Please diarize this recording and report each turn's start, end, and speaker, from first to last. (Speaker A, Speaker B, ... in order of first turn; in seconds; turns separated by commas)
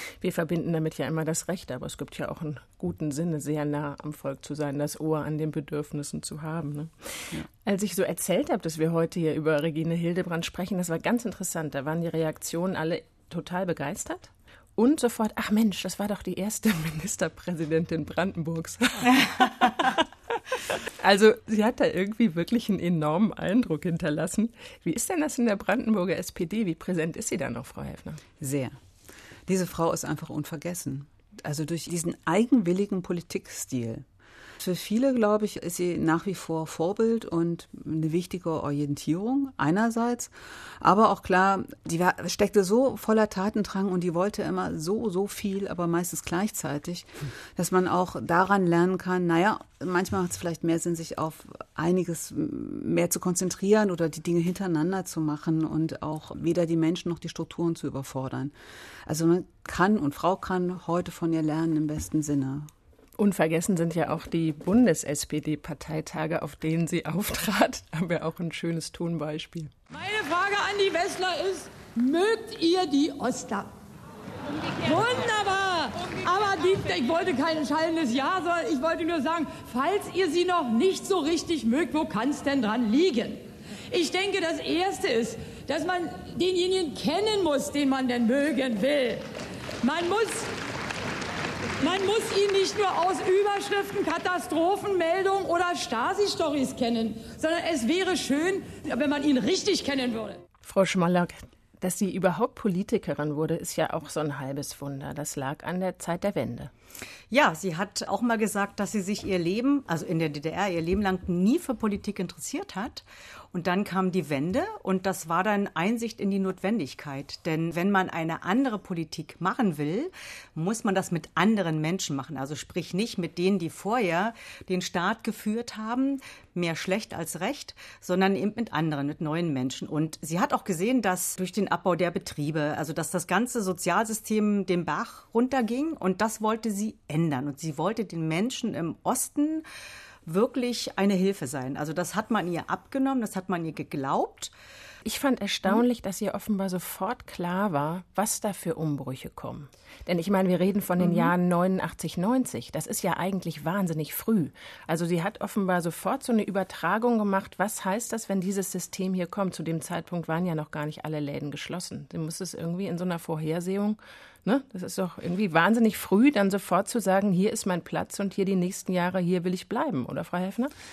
Speaker A: 0.2-28.2, Speaker B: 28.4-28.8, Speaker B: 29.5-34.0, Speaker B: 34.6-58.5, Speaker B: 59.1-62.7, Speaker A: 63.2-69.7, Speaker C: 69.9-73.7, Speaker C: 74.5-89.2, Speaker C: 89.8-90.5, Speaker C: 91.8-100.4, Speaker A: 100.6-106.7, Speaker D: 107.3-139.6, Speaker D: 140.3-144.5, Speaker A: 145.1-170.7, Speaker B: 151.0-151.3